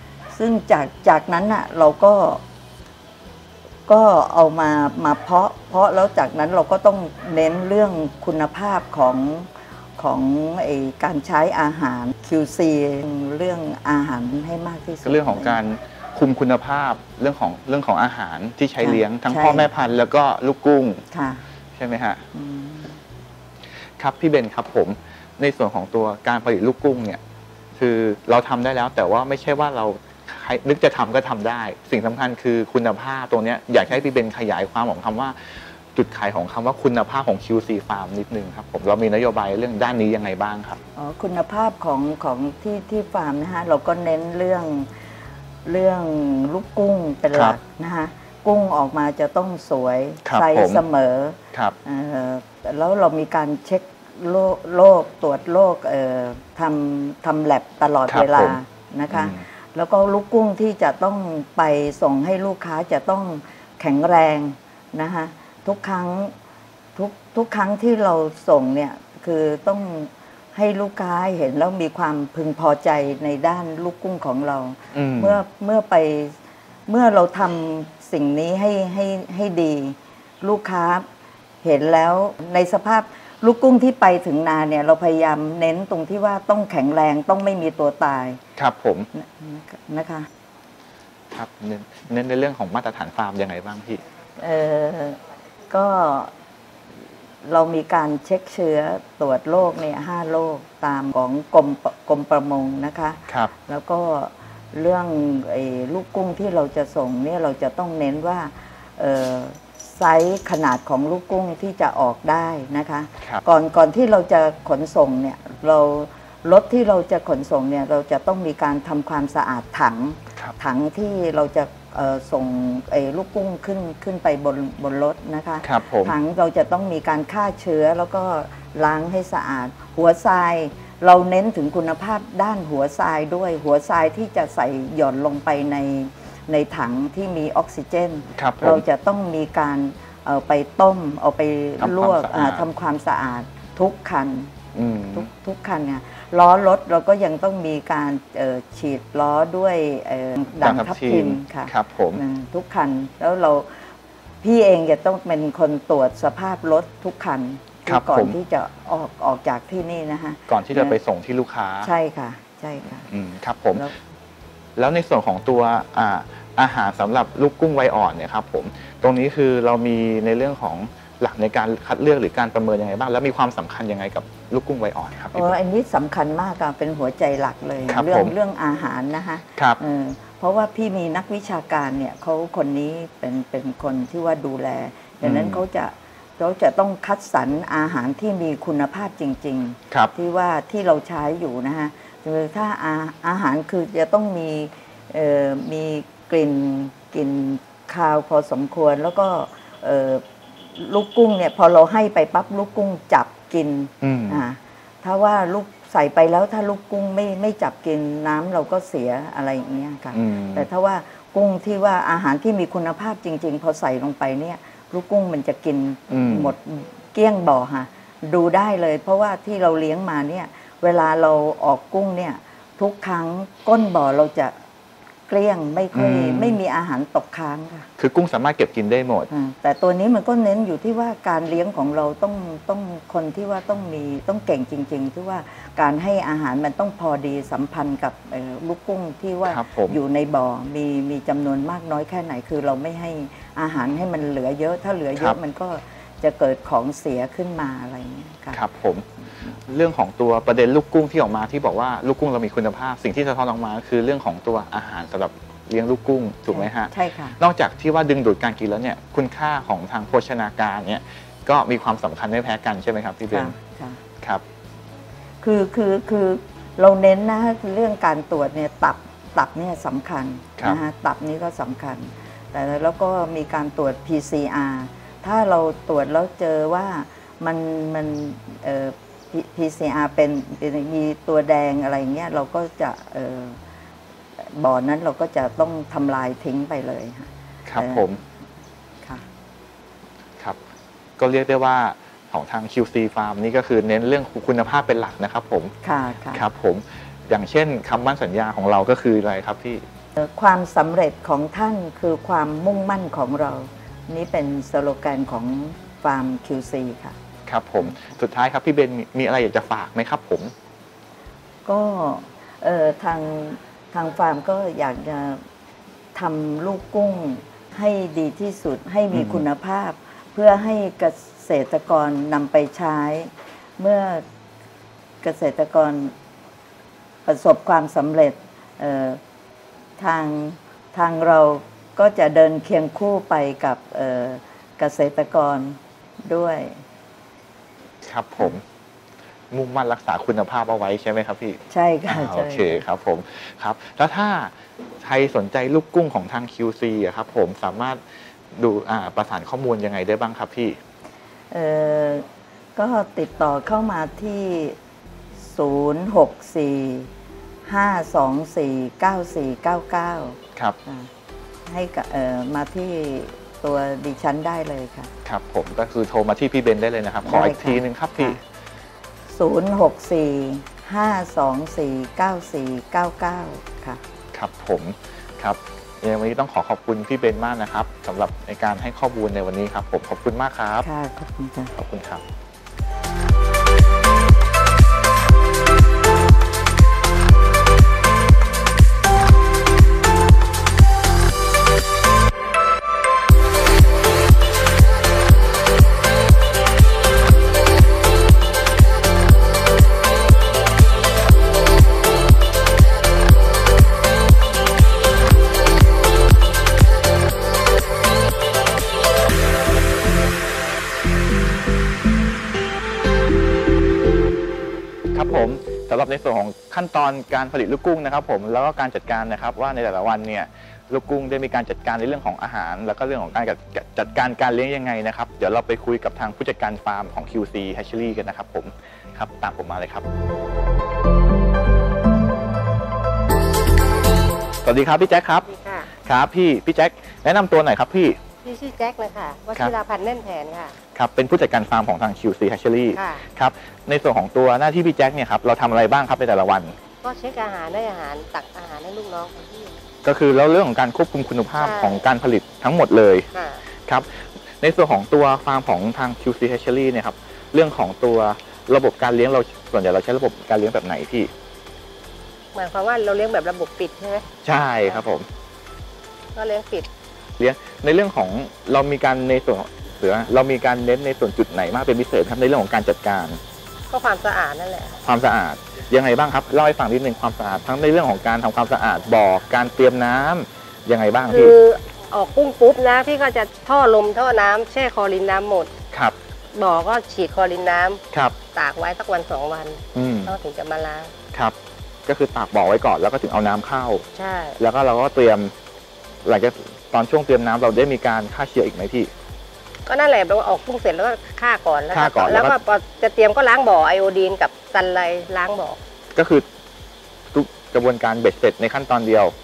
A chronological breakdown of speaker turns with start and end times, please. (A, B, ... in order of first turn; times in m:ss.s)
0:00.3-0:02.4 A
0:03.9-0:15.6 A
0:15.0-0:21.0 B
0:18.8-0:19.7 A
0:21.1-0:21.4 A
0:21.7-0:22.2 B
0:22.3-0:23.0 A
0:24.0-0:27.2 B
0:27.8-0:40.8 B
0:41.0-0:44.9 A
0:45.6-1:06.3 A
0:50.2-0:50.8 B
0:58.1-0:58.6 B
0:59.1-0:59.4 B
1:07.0-1:21.0 A
1:14.9-1:15.4 B
1:21.6-1:28.4 A
1:28.6-1:29.1 B
1:29.1-1:30.3 A
1:31.3-1:34.0 B
1:34.4-1:36.3 A
1:37.4-2:24.5 A
2:05.6-2:06.1 B
2:18.4-2:18.8 B
2:21.8-2:22.6 B
2:24.7-2:25.3 B
2:25.1-2:33.8 A
2:30.6-2:32.2 B
2:34.4-2:41.0 A
2:37.9-2:38.4 B
2:40.5-2:41.9 B
2:41.8-2:43.1 A
2:43.1-2:43.9 B
2:44.8-2:55.5 B
2:55.3-3:44.5 A
2:57.9-2:58.3 B
3:05.2-3:05.6 B
3:24.0-3:24.4 B
3:30.1-3:30.7 B
3:36.1-3:36.5 B
3:45.3-3:47.9 A
3:45.9-3:46.6 B
3:48.0-3:49.3 B
3:49.3-4:08.6 A
3:59.5-4:00.0 B
4:08.5-4:09.1 B
4:09.7-4:23.5 B
4:16.5-4:17.4 A
4:23.3-4:24.0 A
4:25.4-4:43.6 A
4:44.4-4:48.1 A
4:47.6-4:48.2 B
4:51.2-4:55.7 B
4:55.8-4:56.4 A
4:56.3-4:59.8 B
5:00.2-5:07.1 A
5:07.4-5:10.5 B
5:11.6-5:15.4 A
5:16.1-5:24.2 A
5:19.1-5:19.4 B
5:25.2-5:26.1 A
5:27.2-5:29.2 A
5:30.0-5:36.8 A
5:38.0-5:38.6 B
5:39.5-5:48.0 B
5:41.7-5:42.8 A
5:48.5-5:50.8 B
5:51.5-5:54.8 A
5:55.4-5:57.1 A
5:57.6-6:01.1 A
6:01.6-6:05.1 A
6:05.2-6:08.4 B
6:07.2-6:08.4 A
6:09.3-6:14.0 A
6:14.3-6:20.9 B
6:20.8-6:21.7 A
6:21.8-6:22.2 B
6:55.1-7:10.0 B
7:14.6-7:15.5 B
7:15.5-7:15.9 C
7:16.0-7:18.2 B
7:18.4-7:20.8 C
7:20.9-7:26.8 B
7:22.9-7:23.3 C
7:27.0-7:29.7 C
7:30.0-7:33.3 B
7:31.6-7:32.0 C
7:33.3-7:33.6 C
7:33.8-7:41.3 B
7:42.5-7:44.3 C
7:44.4-7:45.3 B
7:46.3-7:46.9 C
7:47.4-7:53.4 B
7:53.9-7:55.0 C
7:55.0-8:01.6 B
8:01.3-8:05.7 C
8:06.5-8:08.0 C
8:08.1-8:08.4 B
8:08.5-8:11.1 C
8:09.9-8:10.4 B
8:11.3-8:14.1 B
8:14.1-8:14.6 C
8:14.6-8:15.5 B
8:16.2-8:19.1 B
8:19.8-8:25.8 C
8:21.9-8:22.6 B
8:26.2-8:26.4 B
8:27.3-8:29.3 B